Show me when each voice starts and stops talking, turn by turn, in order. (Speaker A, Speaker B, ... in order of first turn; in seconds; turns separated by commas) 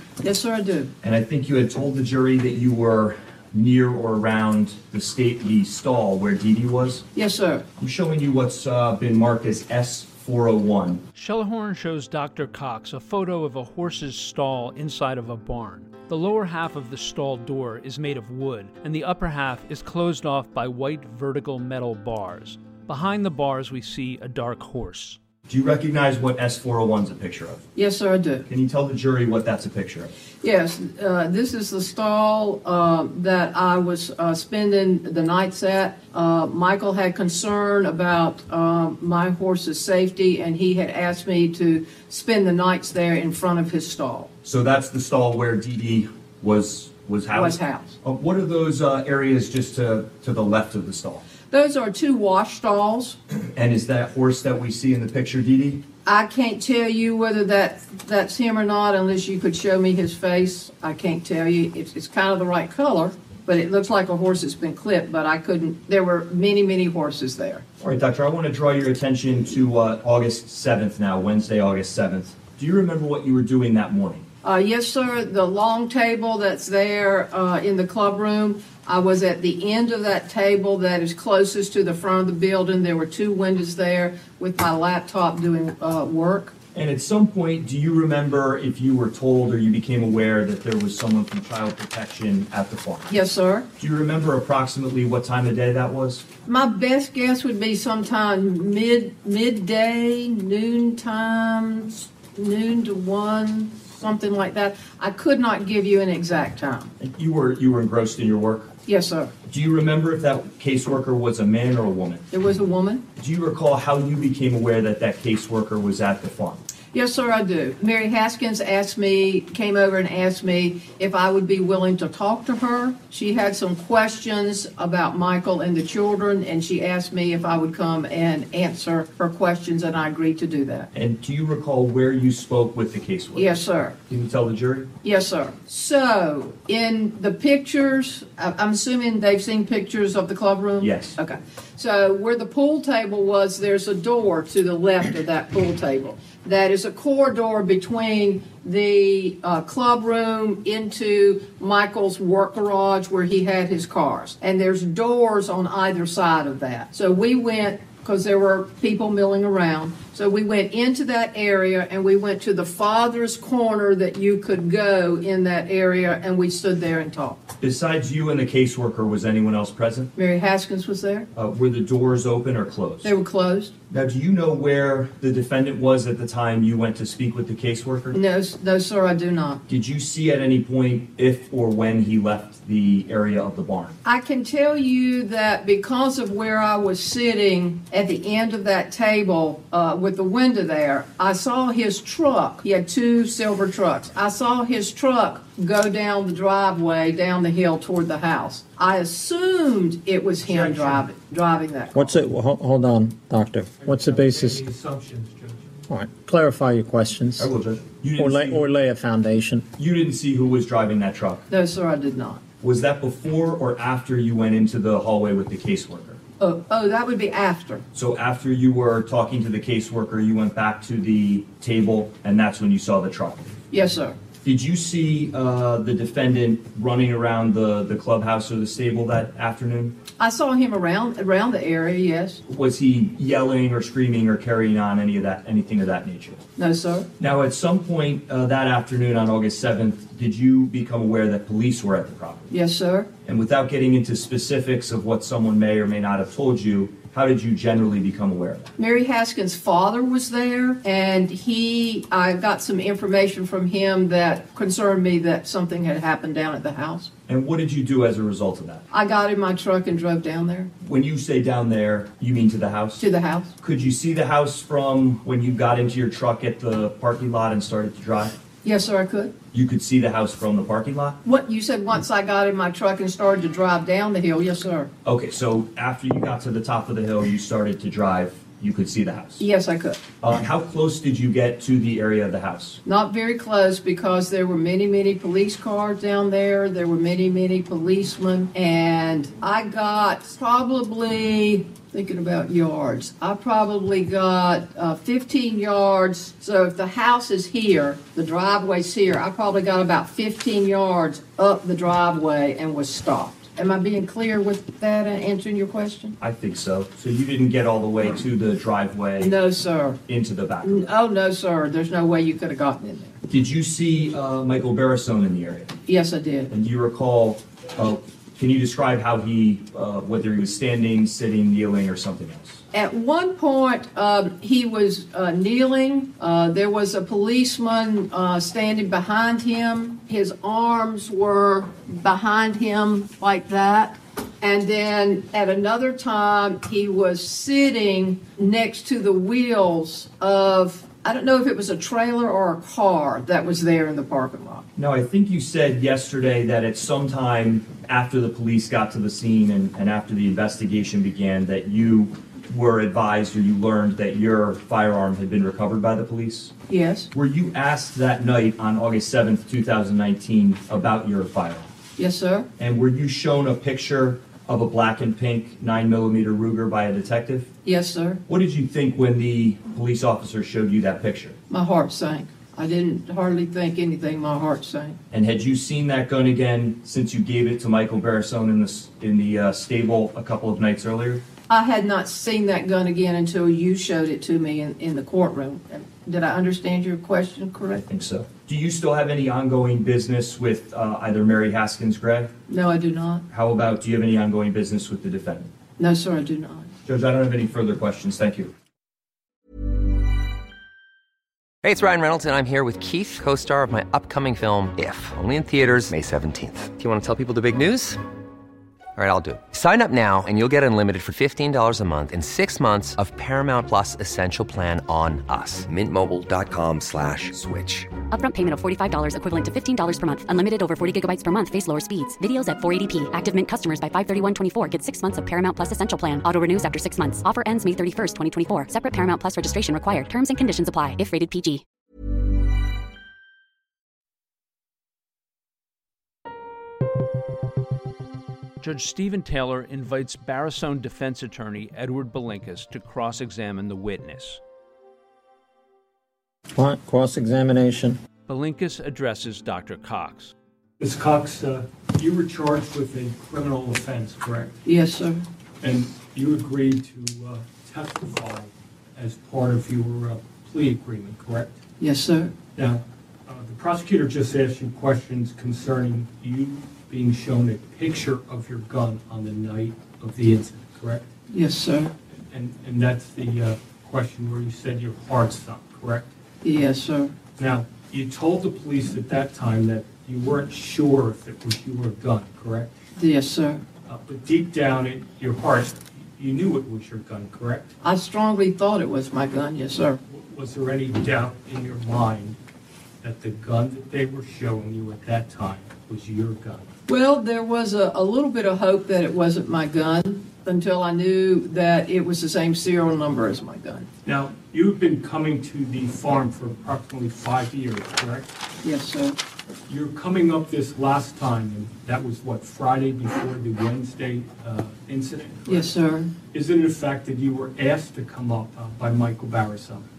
Speaker A: 0.2-0.9, Speaker B: 1.0-7.1, Speaker A: 7.2-7.7, Speaker B: 7.8-11.0, Speaker C: 11.2-25.2, Speaker B: 25.5-27.7, Speaker A: 27.8-28.5, Speaker B: 28.5-30.1, Speaker A: 30.4-44.3, Speaker B: 44.4-51.2, Speaker A: 47.3-48.0, Speaker A: 51.5-53.2, Speaker B: 53.5-55.9, Speaker A: 56.0-67.6, Speaker B: 67.8-74.2, Speaker A: 74.4-86.5, Speaker B: 86.7-93.1, Speaker A: 93.1-93.7, Speaker B: 93.8-96.2, Speaker A: 96.5-106.9, Speaker B: 107.0-108.7, Speaker A: 108.9-109.3, Speaker B: 109.5-112.3, Speaker A: 112.3-113.0, Speaker B: 113.2-116.6, Speaker A: 116.9-130.9, Speaker B: 130.9-133.6, Speaker A: 133.3-134.0, Speaker B: 134.1-134.9, Speaker A: 135.0-167.4, Speaker B: 140.8-141.2, Speaker B: 167.6-170.1, Speaker A: 170.2-171.3, Speaker B: 171.3-173.2, Speaker A: 173.0-173.7, Speaker B: 173.9-178.2, Speaker A: 178.1-179.6, Speaker B: 179.7-184.0, Speaker A: 184.0-202.2, Speaker D: 200.4-201.1, Speaker E: 201.9-204.6, Speaker D: 203.8-205.7, Speaker E: 205.9-207.5, Speaker B: 207.4-208.6, Speaker E: 208.2-209.7, Speaker B: 209.8-211.5, Speaker A: 211.5-212.4, Speaker B: 212.6-216.2, Speaker A: 216.4-217.8, Speaker B: 217.9-223.6, Speaker A: 223.7-224.2, Speaker B: 224.4-230.0, Speaker A: 230.2-232.4, Speaker B: 232.5-236.4, Speaker A: 236.6-237.1, Speaker B: 237.2-242.5, Speaker A: 242.5-243.1, Speaker B: 243.3-248.7, Speaker A: 248.8-257.1, Speaker B: 257.3-258.9, Speaker A: 258.9-260.7, Speaker B: 260.8-263.1, Speaker A: 263.0-263.5, Speaker B: 263.6-268.4, Speaker A: 268.6-269.4, Speaker B: 269.5-271.2, Speaker A: 271.2-274.9, Speaker B: 275.1-279.4, Speaker A: 279.4-280.0, Speaker B: 280.2-282.8, Speaker A: 282.9-306.2, Speaker B: 306.2-309.3, Speaker A: 309.2-310.0, Speaker B: 310.1-310.9, Speaker A: 310.6-313.2, Speaker B: 313.3-315.7, Speaker A: 315.9-316.5, Speaker B: 316.5-322.6, Speaker A: 322.7-344.7, Speaker B: 344.8-356.5, Speaker A: 356.7-357.1, Speaker B: 357.1-361.7, Speaker A: 362.0-362.5, Speaker B: 362.6-367.5, Speaker A: 367.6-368.2, Speaker B: 368.3-371.4, Speaker A: 371.5-375.0, Speaker B: 375.1-381.2, Speaker A: 381.5-387.8, Speaker B: 387.9-392.3, Speaker A: 392.5-393.2, Speaker B: 393.3-395.5, Speaker A: 395.8-396.7, Speaker B: 396.9-398.5, Speaker F: 401.6-408.0, Speaker F: 409.0-417.9, Speaker G: 418.1-431.6, Speaker C: 438.6-444.4, Speaker E: 446.5-448.0, Speaker C: 448.3-450.3, Speaker D: 450.8-454.6, Speaker A: 454.6-455.2, Speaker D: 455.6-461.6, Speaker A: 461.8-462.4, Speaker D: 462.6-471.1, Speaker A: 471.3-471.9, Speaker D: 472.1-476.1, Speaker A: 476.4-477.2, Speaker D: 477.4-482.7, Speaker A: 483.0-483.6, Speaker D: 483.9-487.7, Speaker A: 487.8-490.0, Speaker D: 490.1-492.4, Speaker D: 493.0-496.7, Speaker A: 496.9-503.9, Speaker D: 504.1-508.3, Speaker A: 508.6-509.2, Speaker D: 509.7-515.7, Speaker A: 515.5-516.1, Speaker D: 516.3-519.9